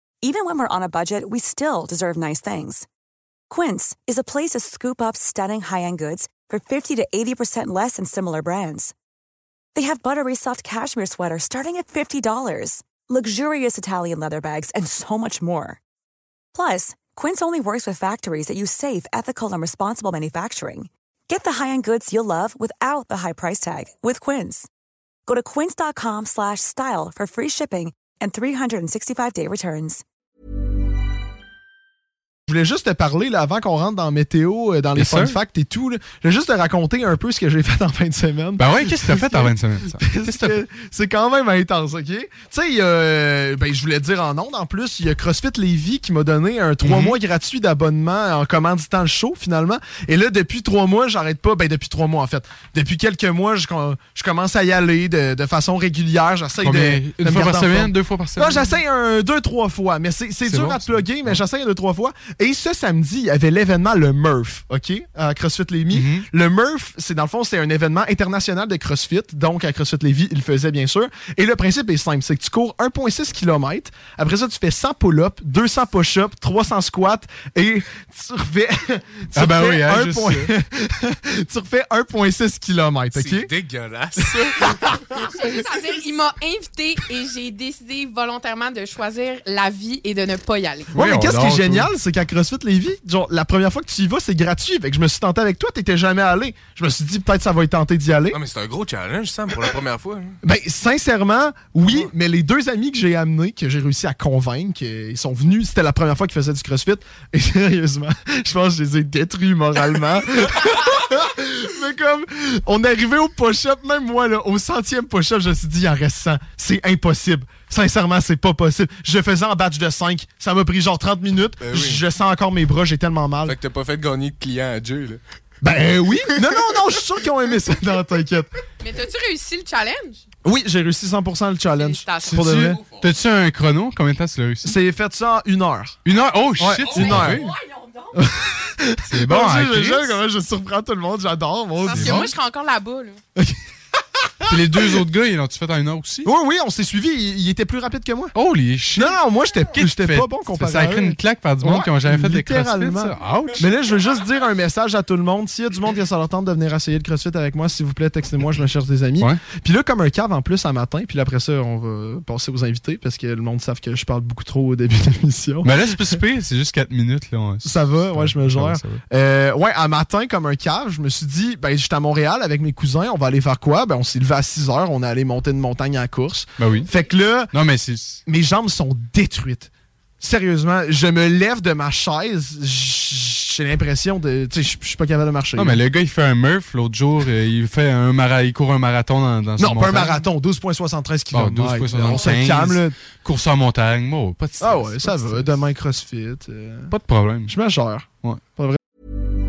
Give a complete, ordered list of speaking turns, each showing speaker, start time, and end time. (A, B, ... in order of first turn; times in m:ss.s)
0:00.2-0:02.9 A
0:03.5-0:08.9 A
0:09.7-0:15.8 A
0:16.5-0:24.7 A
0:25.3-0:30.0 A
0:32.5-1:23.5 B
0:35.0-0:35.4 C
0:38.6-0:40.6 C
0:46.8-0:47.2 C
0:56.6-0:58.6 C
1:00.4-1:01.4 C
1:05.9-1:06.2 C
1:19.4-1:20.5 C
1:23.1-1:25.0 D
1:24.2-1:25.2 B
1:25.2-1:30.9 E
1:30.9-1:31.9 C
1:31.0-1:38.4 B
1:38.3-1:40.3 D
1:40.4-2:03.6 B
2:01.6-2:02.0 D
2:03.4-2:05.2 D
2:05.6-2:08.5 B
2:08.8-2:10.2 E
2:10.4-2:12.8 B
2:11.8-2:12.5 E
2:12.2-2:14.7 C
2:14.6-2:16.0 B
2:16.0-2:17.6 C
2:16.6-2:17.5 B
2:18.1-2:22.3 B
2:19.1-2:20.2 C
2:21.8-2:23.2 E
2:21.9-2:22.3 C
2:24.5-2:25.0 B
2:24.5-2:26.3 C
2:26.2-2:28.3 B
2:28.3-2:29.2 C
2:28.9-2:46.2 B
2:29.7-2:33.7 C
2:45.6-2:49.0 C
2:47.6-2:57.5 B
2:56.6-2:56.9 C
2:57.5-2:58.2 C
2:58.2-3:05.8 B
3:05.6-3:10.2 C
3:09.6-3:13.0 B
3:11.3-3:15.6 C
3:14.6-3:16.9 B
3:16.9-3:17.5 C
3:17.5-3:18.8 B